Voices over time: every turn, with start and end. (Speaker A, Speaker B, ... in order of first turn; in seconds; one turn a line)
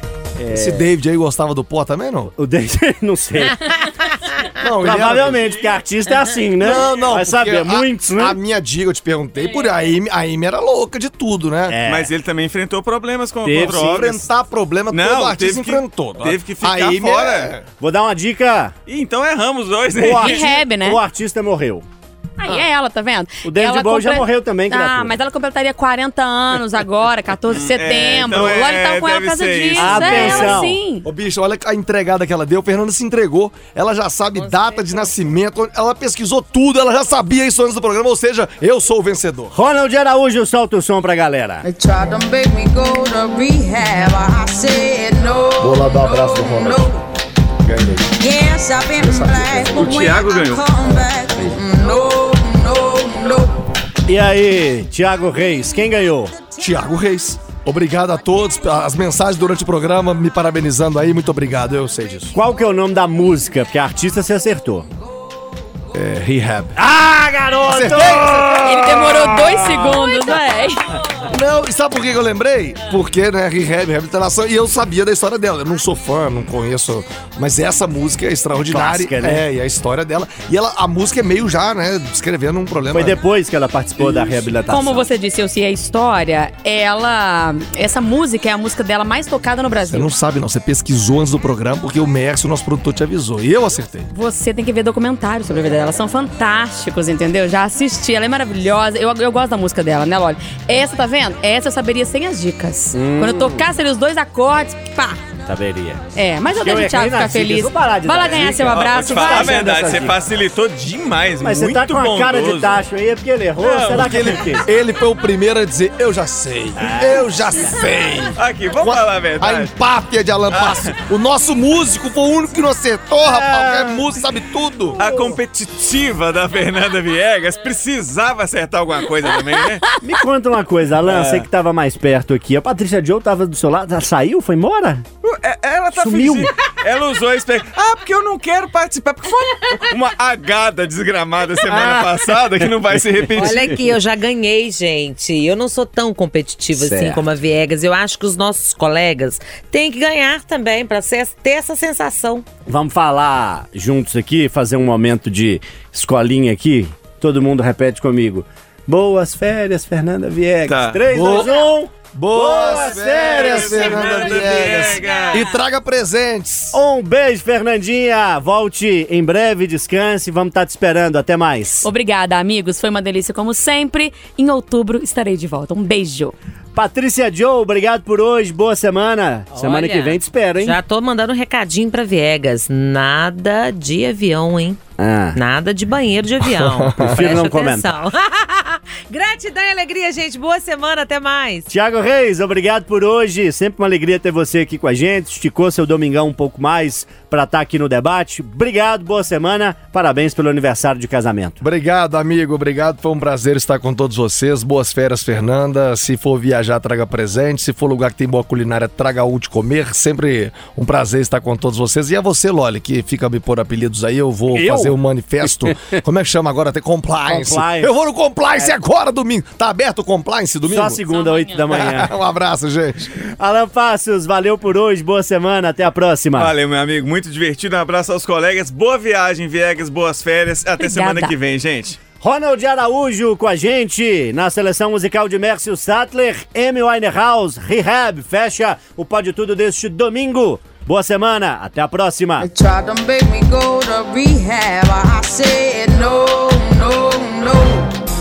Speaker A: 0.4-0.8
Speaker B: 0.5-2.3
Speaker A: 2.3-3.9
Speaker C: 3.7-4.5
Speaker B: 4.6-5.5
Speaker A: 4.8-8.4
Speaker B: 6.6-11.8
Speaker A: 11.7-12.1
Speaker D: 11.8-14.2
Speaker A: 13.4-14.0
Speaker B: 13.6-17.6
Speaker D: 14.9-17.5
Speaker A: 17.8-18.7
Speaker D: 18.9-20.5
Speaker A: 19.9-21.8
Speaker E: 20.2-21.0
Speaker E: 22.4-31.1
Speaker A: 23.4-25.1
Speaker D: 27.5-30.5
Speaker A: 29.8-30.8
Speaker B: 31.0-39.5
Speaker C: 34.4-35.0
Speaker A: 39.5-41.6
Speaker F: 41.6-47.0
Speaker B: 45.6-46.9
Speaker B: 47.6-48.2
Speaker F: 48.2-53.6
Speaker B: 48.9-50.1
Speaker D: 49.7-50.6
Speaker A: 54.1-56.3
Speaker B: 56.6-62.3
Speaker A: 62.3-64.8
Speaker B: 65.9-66.8
Speaker A: 66.8-69.5
Speaker B: 67.6-70.0
Speaker E: 68.6-70.8
Speaker B: 71.2-83.2
Speaker A: 78.7-79.4
Speaker A: 82.9-85.1
Speaker E: 84.7-90.1
Speaker B: 89.9-94.1
Speaker E: 94.1-105.2
Speaker A: 102.9-103.7
Speaker A: 105.5-110.2
Speaker E: 106.1-109.9
Speaker D: 108.7-112.8
Speaker A: 111.4-114.6
Speaker B: 113.6-125.0
Speaker D: 113.6-114.3
Speaker A: 116.8-117.7
Speaker D: 118.3-119.7
Speaker D: 120.5-120.9
Speaker A: 123.2-124.0
Speaker D: 125.0-129.9
Speaker A: 125.0-125.3
Speaker A: 130.0-135.0
Speaker D: 131.0-131.4
Speaker D: 135.2-143.8
Speaker A: 135.9-136.5
Speaker A: 141.7-142.4
Speaker A: 143.3-143.8
Speaker C: 143.3-152.4
Speaker A: 146.7-147.2
Speaker A: 152.7-164.7
Speaker D: 160.7-161.0
Speaker B: 161.1-161.5
Speaker B: 162.1-166.8
Speaker D: 162.7-165.5
Speaker C: 164.9-165.3
Speaker A: 166.7-171.9
Speaker E: 171.8-176.3
Speaker A: 176.7-180.8
Speaker C: 179.5-184.8
Speaker A: 185.0-185.4
Speaker C: 185.3-191.7
Speaker B: 186.4-187.4
Speaker A: 187.0-187.9
Speaker A: 191.7-201.6
Speaker B: 201.6-221.0
Speaker A: 214.5-216.0
Speaker A: 217.3-217.9
Speaker A: 220.7-222.1
Speaker E: 221.1-221.6
Speaker B: 221.7-223.2
Speaker A: 223.3-226.5
Speaker D: 226.3-232.0
Speaker E: 230.8-231.3
Speaker A: 232.2-242.5
Speaker F: 242.4-247.9